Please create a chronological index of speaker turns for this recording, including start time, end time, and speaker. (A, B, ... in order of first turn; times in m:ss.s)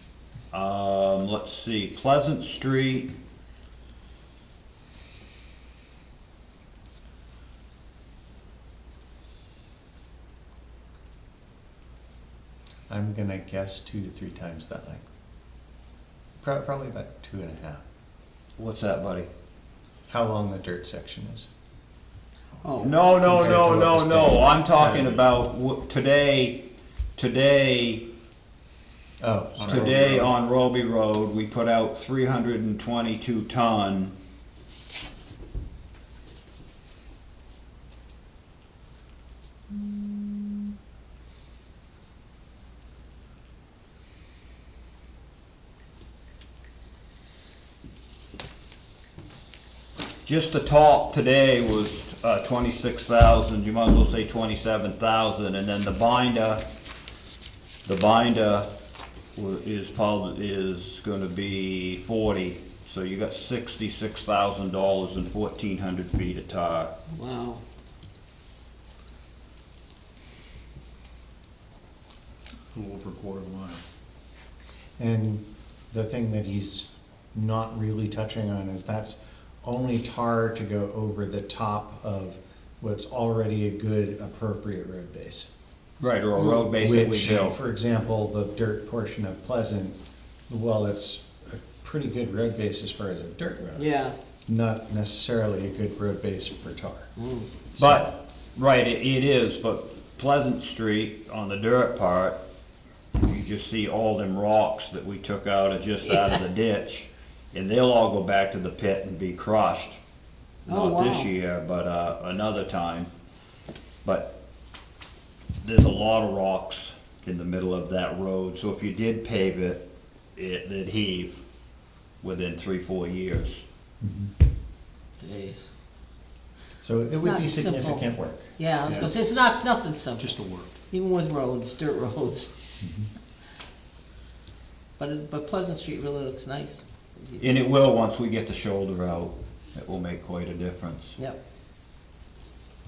0:00.5-0:03.1 A
0:12.9-0:15.1 B
0:16.4-0:17.8 B
0:18.6-0:19.3 A
0:20.1-0:21.5 B
0:22.6-0:23.0 C
0:22.8-0:26.6 A
0:23.0-0:25.0 B
0:27.2-0:28.1 A
0:29.2-0:30.2 B
0:29.6-0:30.3 D
0:29.7-0:34.2 A
0:50.2-0:56.6 A
0:57.8-0:58.7 A
0:59.4-1:06.9 A
1:07.1-1:07.6 C
1:12.7-1:13.8 D
1:15.0-1:25.5 B
1:26.0-1:27.6 A
1:26.4-1:26.6 C
1:26.8-1:30.0 B
1:30.5-1:33.9 B
1:33.8-1:34.2 C
1:34.5-1:37.1 B
1:37.2-1:37.5 C
1:37.7-1:38.0 B
1:37.8-1:42.4 A
1:43.2-1:50.0 A
1:50.7-1:51.3 C
1:50.7-1:53.1 A
1:54.0-1:54.4 A
1:55.6-2:01.4 A
2:02.2-2:03.6 A
2:04.0-2:04.3 B
2:05.2-2:05.7 C
2:06.8-2:09.1 B
2:07.1-2:10.4 C
2:08.8-2:09.1 D
2:10.2-2:10.7 D
2:10.9-2:12.5 C
2:12.8-2:13.1 B
2:15.0-2:17.5 C
2:17.4-2:21.2 A